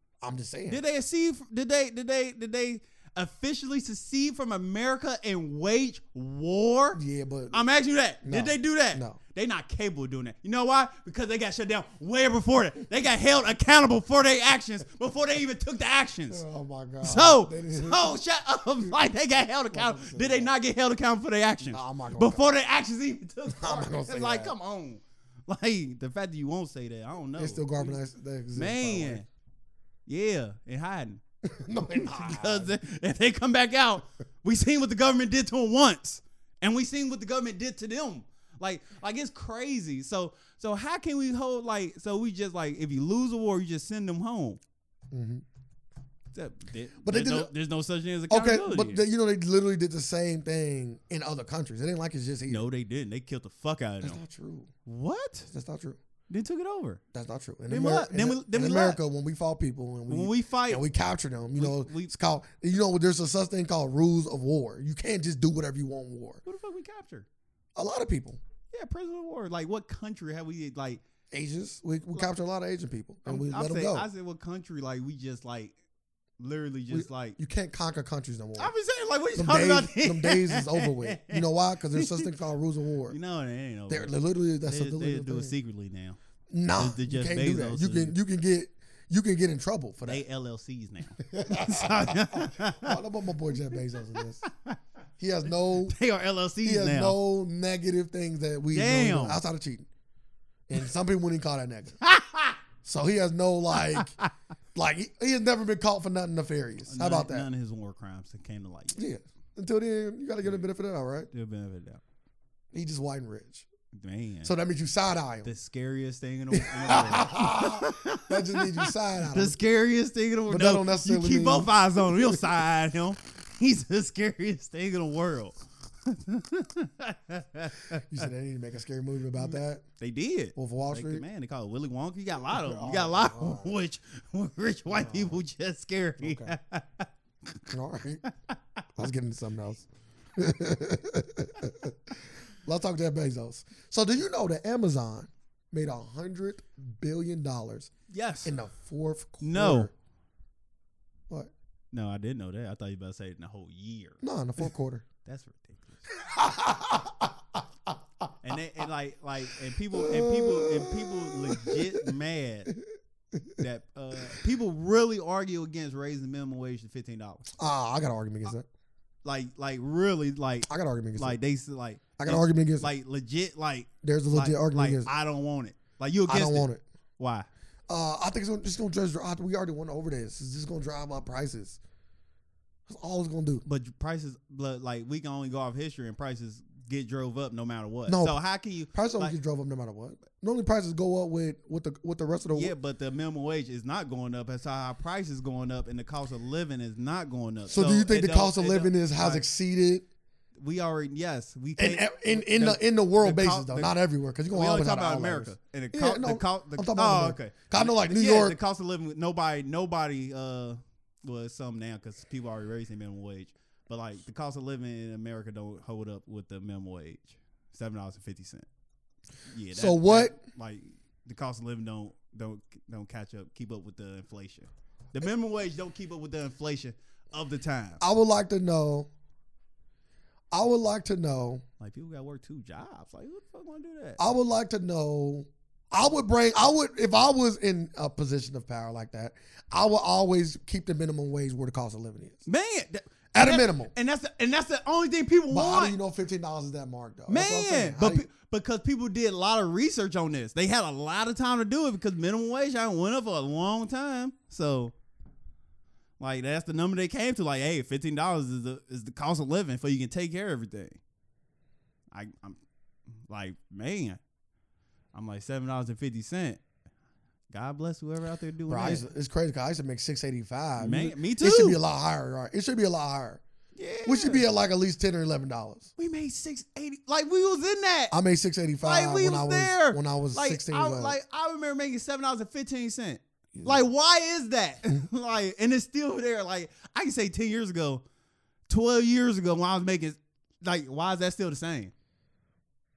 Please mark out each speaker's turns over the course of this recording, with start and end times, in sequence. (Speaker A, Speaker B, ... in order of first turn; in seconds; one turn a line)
Speaker A: 0.2-0.8
Speaker B: 0.7-7.0
Speaker A: 7.0-7.6
Speaker B: 7.5-16.4
Speaker A: 8.2-9.2
Speaker A: 16.3-18.2
Speaker B: 17.0-28.0
Speaker A: 19.7-20.5
Speaker A: 21.7-22.5
Speaker A: 23.5-24.5
Speaker A: 27.4-29.2
Speaker B: 28.5-29.3
Speaker B: 30.1-31.2
Speaker A: 31.4-32.8
Speaker B: 31.9-44.6
Speaker A: 45.1-45.4
Speaker B: 46.3-49.0
Speaker A: 47.0-47.5
Speaker A: 48.3-52.6
Speaker B: 52.5-54.2
Speaker A: 54.0-54.7
Speaker B: 54.9-55.5
Speaker A: 55.5-56.0
Speaker B: 56.3-57.0
Speaker A: 57.1-66.4
Speaker B: 57.7-59.0
Speaker B: 60.1-60.8
Speaker B: 61.5-62.1
Speaker B: 66.4-67.3
Speaker A: 67.8-68.4
Speaker B: 68.7-71.0
Speaker A: 71.3-74.1
Speaker B: 73.2-75.8
Speaker B: 76.4-77.4
Speaker A: 76.9-78.7
Speaker B: 78.6-82.3
Speaker A: 79.3-83.2
Speaker B: 83.1-84.1
Speaker A: 83.9-85.5
Speaker B: 84.7-86.2
Speaker A: 86.5-90.2
Speaker B: 86.8-88.2
Speaker B: 90.0-93.0
Speaker A: 91.2-94.4
Speaker A: 95.2-95.9
Speaker B: 95.8-97.2
Speaker A: 96.6-99.9
Speaker B: 98.7-99.4
Speaker A: 100.7-102.0
Speaker B: 102.0-102.6
Speaker A: 102.8-104.2
Speaker B: 103.8-104.3
Speaker A: 104.7-107.5
Speaker B: 106.9-109.0
Speaker A: 108.9-111.3
Speaker B: 111.3-112.0
Speaker A: 112.7-113.7
Speaker B: 113.9-114.5
Speaker A: 114.4-115.5
Speaker B: 115.4-128.0
Speaker A: 116.5-119.6
Speaker A: 120.5-122.4
Speaker A: 128.1-129.8
Speaker B: 129.4-137.7
Speaker A: 130.6-131.2
Speaker A: 132.5-133.8
Speaker A: 134.9-135.4
Speaker A: 136.2-136.5
Speaker A: 137.7-138.2
Speaker B: 138.3-138.8
Speaker A: 139.0-141.9
Speaker A: 142.6-147.9
Speaker B: 148.1-148.5
Speaker A: 148.4-149.9
Speaker B: 149.4-149.9
Speaker B: 151.9-154.2
Speaker A: 154.2-155.0
Speaker B: 155.2-156.0
Speaker A: 156.2-157.3
Speaker B: 158.4-162.7
Speaker A: 159.9-162.0
Speaker A: 163.3-163.6
Speaker B: 163.6-167.5
Speaker A: 167.6-168.7
Speaker B: 169.2-177.5
Speaker A: 170.7-171.4
Speaker A: 172.2-172.9
Speaker A: 174.0-175.1
Speaker A: 176.3-176.8
Speaker A: 177.9-181.8
Speaker A: 182.9-183.6
Speaker B: 183.6-189.3
Speaker A: 188.1-188.4
Speaker A: 188.9-192.7
Speaker B: 192.5-199.4
Speaker A: 197.7-200.1
Speaker B: 200.6-203.9
Speaker A: 201.8-208.6
Speaker B: 204.5-218.7
Speaker B: 219.5-228.0
Speaker A: 219.7-220.3
Speaker A: 228.0-229.1
Speaker A: 230.5-231.6
Speaker B: 231.8-234.2
Speaker A: 234.2-242.4
Speaker B: 242.4-246.0
Speaker A: 243.3-243.9
Speaker A: 245.5-248.3
Speaker B: 247.3-254.9
Speaker B: 256.2-261.0
Speaker B: 262.1-262.6
Speaker B: 263.3-264.2
Speaker B: 265.1-266.6
Speaker B: 267.5-269.1
Speaker A: 268.7-273.4
Speaker B: 270.8-271.8
Speaker B: 273.8-274.4
Speaker A: 274.0-275.9
Speaker B: 276.0-278.1
Speaker A: 278.1-281.2
Speaker B: 278.8-288.0
Speaker A: 283.5-283.8
Speaker B: 288.7-291.9